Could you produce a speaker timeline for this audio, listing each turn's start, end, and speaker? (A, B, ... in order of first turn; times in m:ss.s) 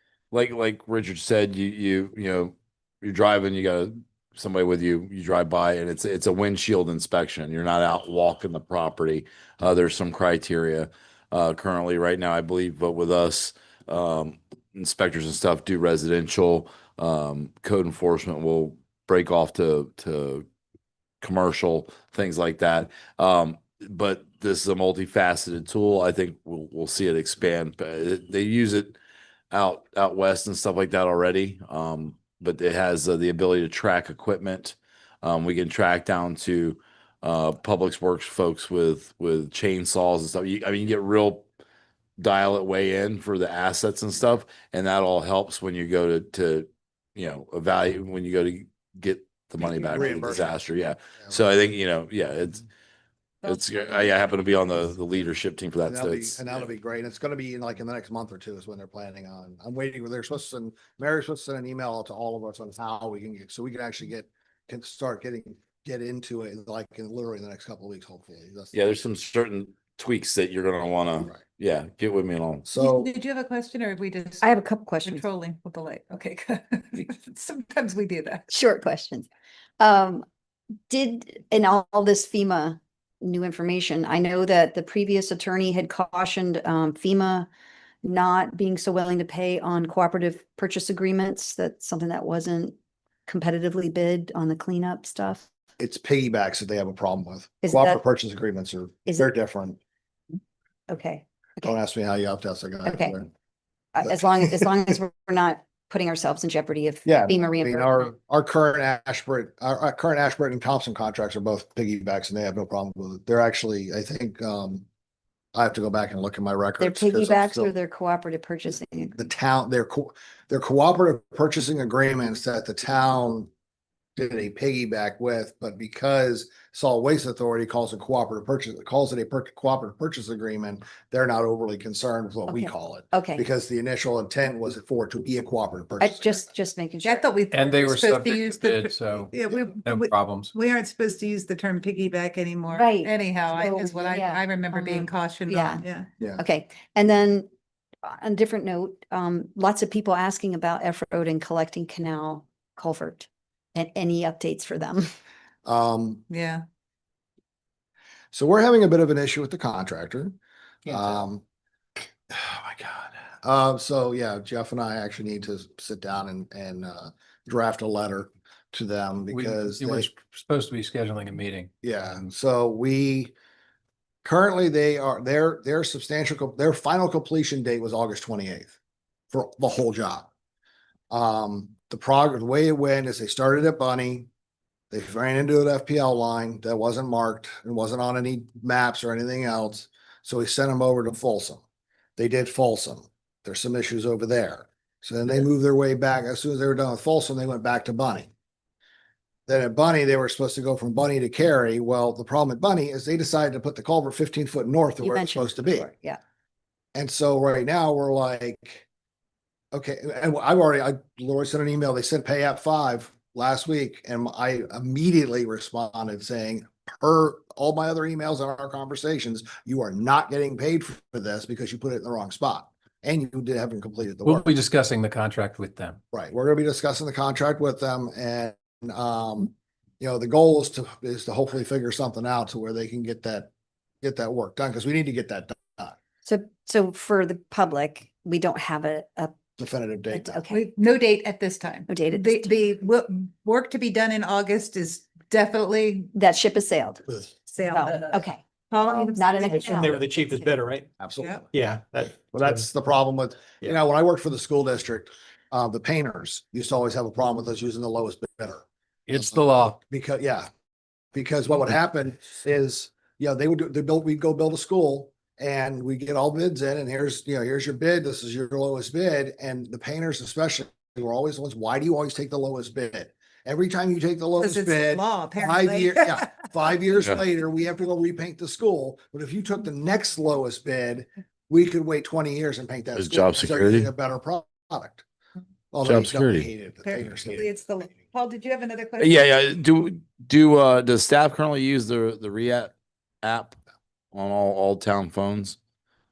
0:00.3-0:20.5 A
0:21.2-0:29.0 A
0:29.5-0:41.5 A
0:42.2-0:52.7 A
0:49.6-0:50.6 B
0:53.4-0:56.4 A
0:55.9-1:08.8 B
1:08.7-1:12.7 A
1:12.6-1:13.1 B
1:12.8-1:14.5 C
1:14.4-1:15.2 D
1:15.0-1:18.5 C
1:18.5-1:19.3 D
1:19.8-1:20.2 D
1:20.9-1:27.5 D
1:28.0-1:32.8 D
1:33.3-1:35.5 D
1:35.8-1:39.8 B
1:37.6-1:38.0 D
1:40.9-1:41.8 D
1:41.6-1:43.3 B
1:42.9-1:43.2 D
1:43.9-1:48.1 D
1:47.0-1:54.8 B
1:55.6-1:57.7 B
1:56.8-1:59.2 D
1:59.2-2:03.5 B
2:04.2-2:16.4 B
2:12.5-2:13.4 D
2:16.0-2:17.2 D
2:17.0-2:26.1 C
2:17.5-2:20.5 E
2:22.7-2:25.8 D
2:26.4-2:27.5 D
2:28.0-2:35.1 D
2:35.6-2:36.2 B
2:36.3-2:36.6 C
2:38.3-2:41.4 B
2:42.3-2:50.1 B
2:49.3-2:51.7 E
2:51.8-2:53.3 B
2:54.2-2:58.7 B
2:59.3-3:00.3 B
3:01.1-3:04.3 B
3:04.9-3:11.6 B
3:12.2-3:18.3 B
3:19.5-3:25.9 B
3:25.0-3:26.2 D
3:27.0-3:28.8 B
3:29.7-3:44.5 B
3:44.2-3:46.0 E
3:46.1-3:53.5 B
3:54.0-3:56.0 B
3:56.2-3:59.4 D
3:59.6-4:00.4 B
4:00.1-4:00.6 D
4:00.5-4:06.1 C
4:01.9-4:02.6 D
4:06.2-4:07.0 D
4:07.5-4:09.9 C
4:07.7-4:10.2 D
4:09.4-4:10.9 F
4:11.0-4:11.5 B
4:11.2-4:11.4 C
4:11.5-4:12.6 F
4:12.3-4:18.6 B
4:19.1-4:19.8 E
4:19.2-4:20.5 B
4:21.1-4:45.0 B
4:34.4-4:36.2 C
4:43.0-4:43.9 A
4:45.7-4:47.5 B
4:45.8-4:46.5 A
4:46.8-4:49.4 C
4:49.0-4:53.6 A
4:54.1-4:55.6 A